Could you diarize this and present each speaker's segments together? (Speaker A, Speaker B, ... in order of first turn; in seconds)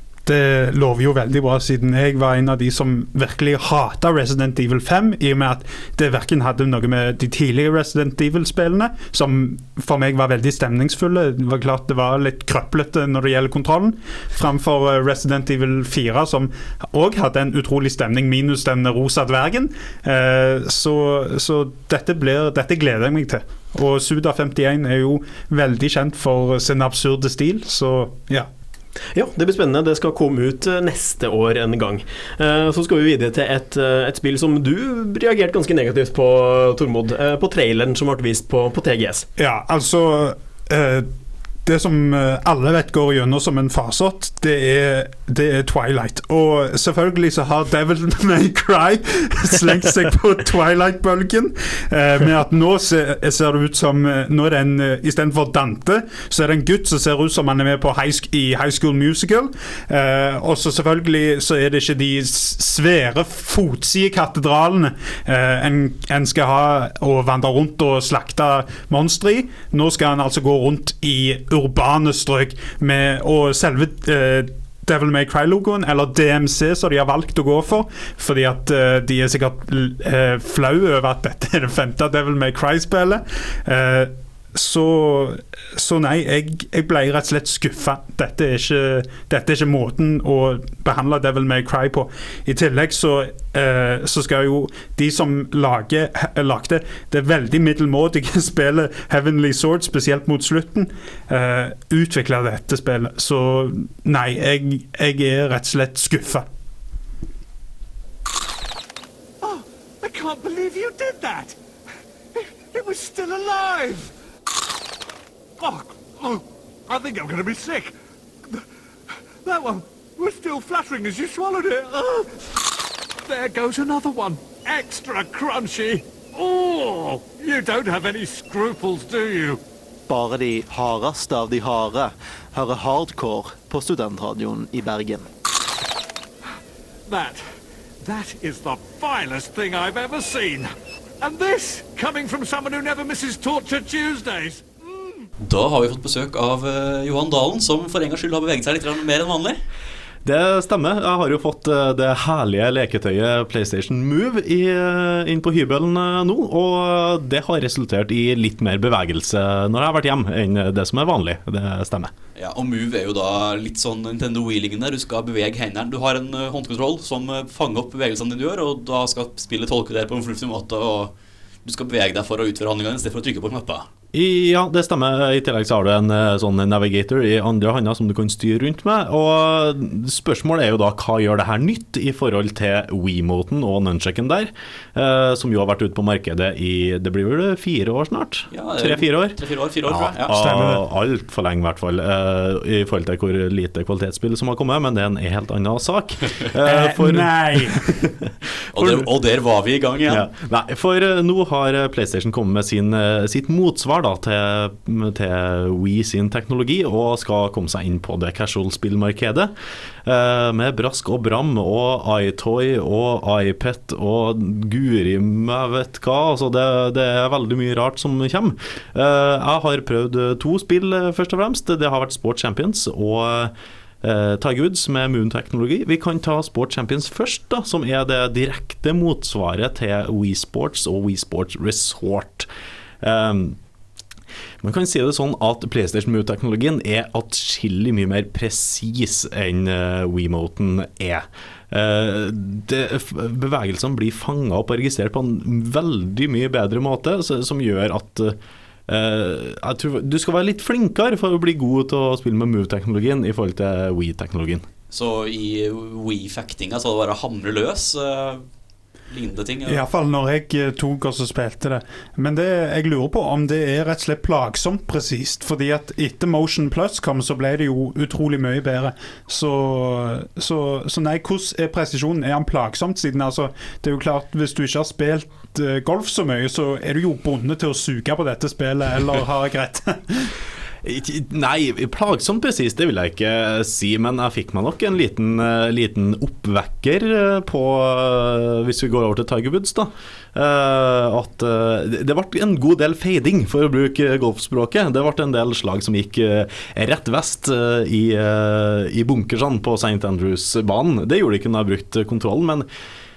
Speaker A: 0.3-28.5, 39.4-41.1, 41.7-106.5, 190.3-190.8, 196.6-197.9, 259.7-280.3
Speaker B: 29.1-39.3
Speaker C: 109.4-111.6, 112.3-114.1, 115.6-117.9, 119.4-122.6, 123.2-129.6, 137.1-137.4, 138.0-145.2
Speaker D: 130.1-135.3
Speaker E: 145.4-149.6, 162.4-171.1, 171.7-173.9, 188.5-190.4, 198.7-200.3, 254.9-258.4, 259.1-259.8
Speaker F: 150.2-162.1, 174.1-198.1, 200.1-209.5, 210.1-232.5, 233.0-233.6, 234.6-248.4, 248.9-254.7, 280.8-302.7